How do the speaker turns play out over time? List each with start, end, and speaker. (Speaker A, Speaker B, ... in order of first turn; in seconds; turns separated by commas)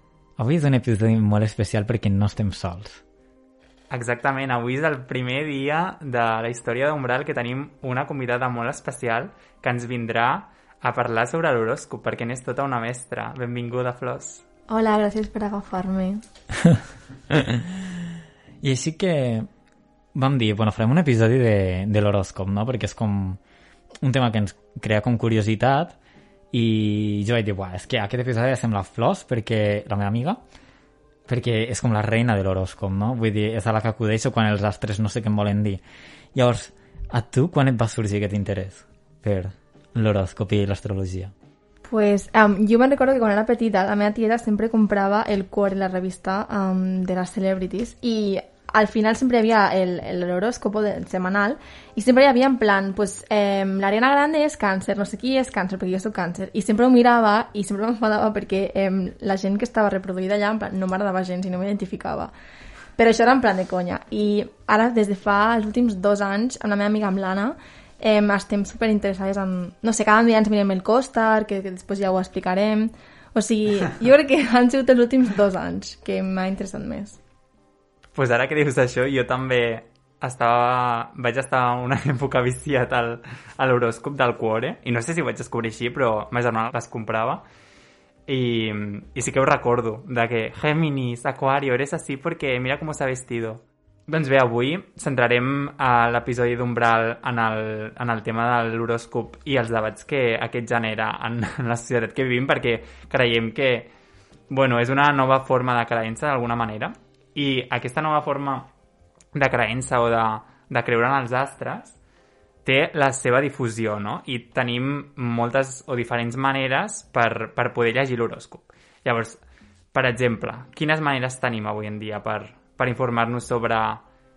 Speaker A: 0.4-3.0, Speaker B: 3.9-14.4, Speaker C: 14.7-16.2, Speaker A: 18.6-19.5, Speaker A: 20.1-23.4, Speaker A: 24.0-25.9, Speaker A: 26.5-30.4, Speaker A: 31.3-35.8, Speaker A: 36.3-41.3, Speaker C: 41.8-62.3, Speaker C: 63.0-77.2, Speaker B: 78.1-87.4, Speaker B: 88.3-103.9, Speaker B: 104.5-108.7, Speaker B: 109.3-112.0, Speaker B: 112.6-119.4, Speaker B: 119.9-124.0